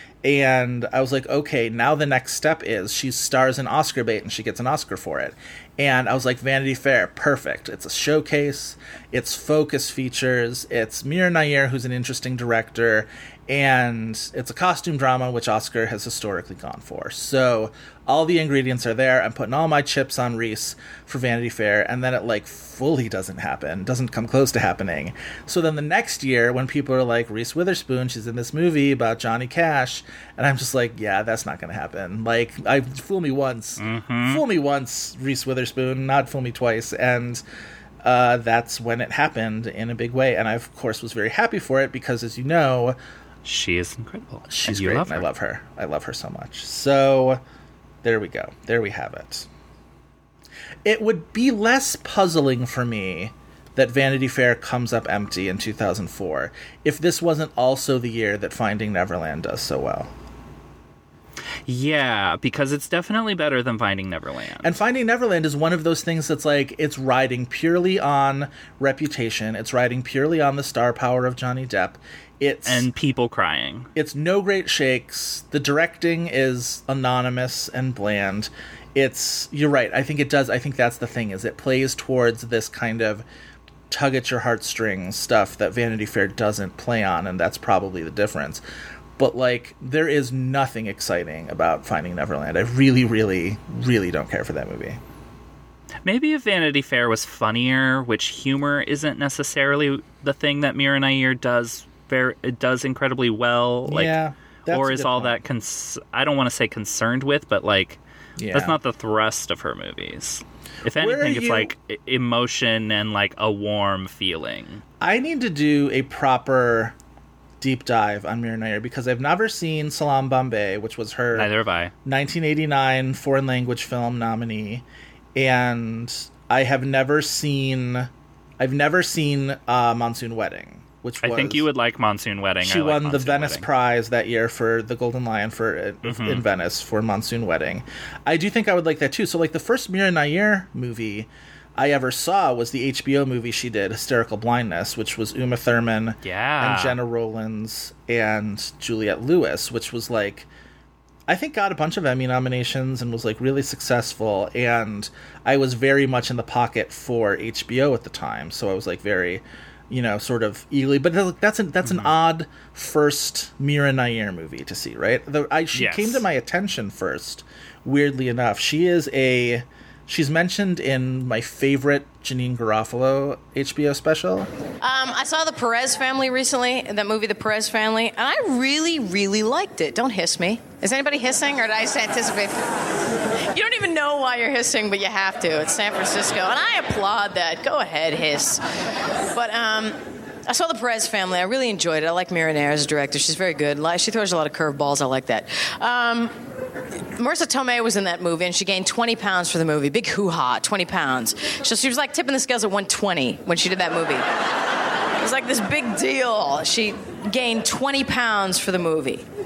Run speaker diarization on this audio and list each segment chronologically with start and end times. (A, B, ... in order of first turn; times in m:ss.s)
0:00.2-0:37.4 A
0:33.8-0:34.4 B
0:38.0-0:43.0 A
0:43.4-0:45.3 B
0:44.5-0:47.4 A
0:48.0-0:49.5 A
0:50.8-1:00.1 A
1:01.7-1:04.8 B
1:04.6-1:12.9 A
1:12.6-1:13.9 B
1:13.9-1:23.2 A
1:23.9-1:28.6 A
1:29.2-1:35.0 A
1:36.0-1:44.2 B
1:43.9-1:45.4 A
1:44.7-1:48.0 B
1:48.4-1:48.8 A
1:48.5-1:54.8 B
1:50.9-1:51.7 A
1:55.0-1:56.9 A
1:57.6-2:01.5 A
2:01.3-2:01.9 B
2:02.0-2:11.6 A
2:11.2-2:13.7 B
2:12.6-2:30.5 A
2:16.0-2:16.4 B
2:26.2-2:27.0 B
2:31.3-2:54.5 A
2:41.8-2:42.1 B
2:45.7-2:46.2 B
2:54.8-3:02.7 C
3:03.5-3:08.6 C
3:09.3-3:16.3 C
3:17.2-3:24.2 C
3:25.2-3:29.2 C